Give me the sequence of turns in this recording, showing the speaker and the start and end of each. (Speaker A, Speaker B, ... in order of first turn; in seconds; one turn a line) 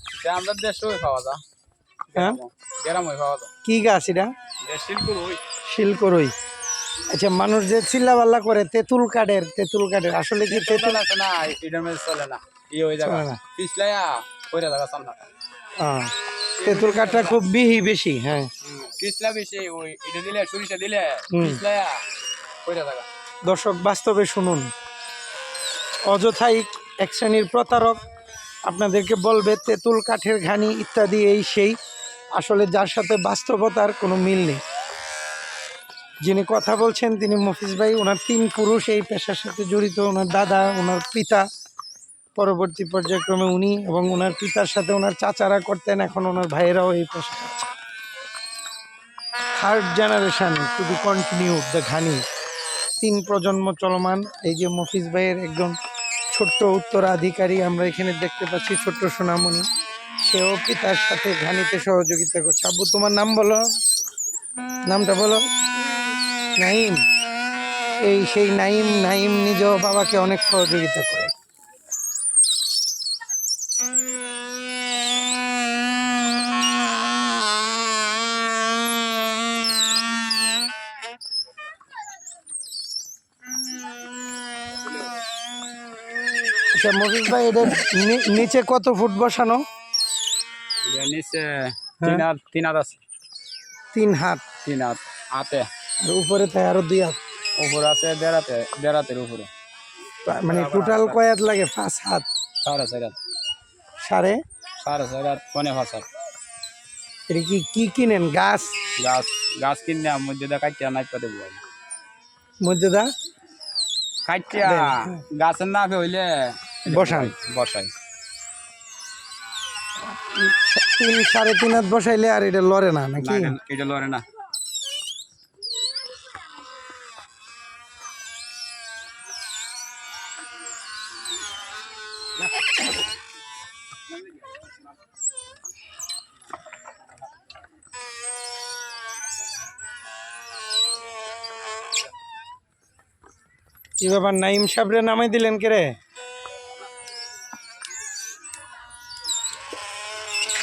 Speaker A: 0.1-1.4
Speaker A: 2.1-3.5
Speaker B: 3.6-4.3
Speaker A: 4.6-5.4
Speaker B: 5.7-6.3
Speaker B: 7.1-11.0
Speaker A: 10.4-15.2
Speaker B: 13.0-13.4
Speaker B: 15.8-18.5
Speaker A: 16.6-17.4
Speaker A: 18.6-22.0
Speaker B: 21.3-21.6
Speaker A: 22.6-23.1
Speaker B: 23.4-24.7
Speaker B: 26.1-28.0
Speaker B: 28.6-31.8
Speaker B: 32.3-34.6
Speaker B: 36.2-41.4
Speaker B: 42.4-47.6
Speaker B: 49.5-52.2
Speaker B: 53.0-55.7
Speaker B: 56.3-59.6
Speaker B: 60.2-63.7
Speaker B: 64.9-65.4
Speaker B: 66.6-67.0
Speaker B: 68.0-71.3
Speaker B: 86.7-89.6
Speaker A: 90.8-93.0
Speaker B: 93.9-94.4
Speaker A: 94.6-95.7
Speaker B: 96.0-97.2
Speaker A: 97.6-99.5
Speaker B: 100.2-102.2
Speaker A: 100.4-101.2
Speaker A: 102.6-103.2
Speaker B: 104.0-104.4
Speaker A: 104.8-106.0
Speaker B: 107.3-108.8
Speaker A: 109.0-111.6
Speaker B: 112.6-113.1
Speaker A: 114.2-117.9
Speaker B: 114.5-115.2
Speaker B: 116.8-117.3
Speaker B: 120.2-123.5
Speaker A: 123.2-124.2
Speaker B: 144.0-145.9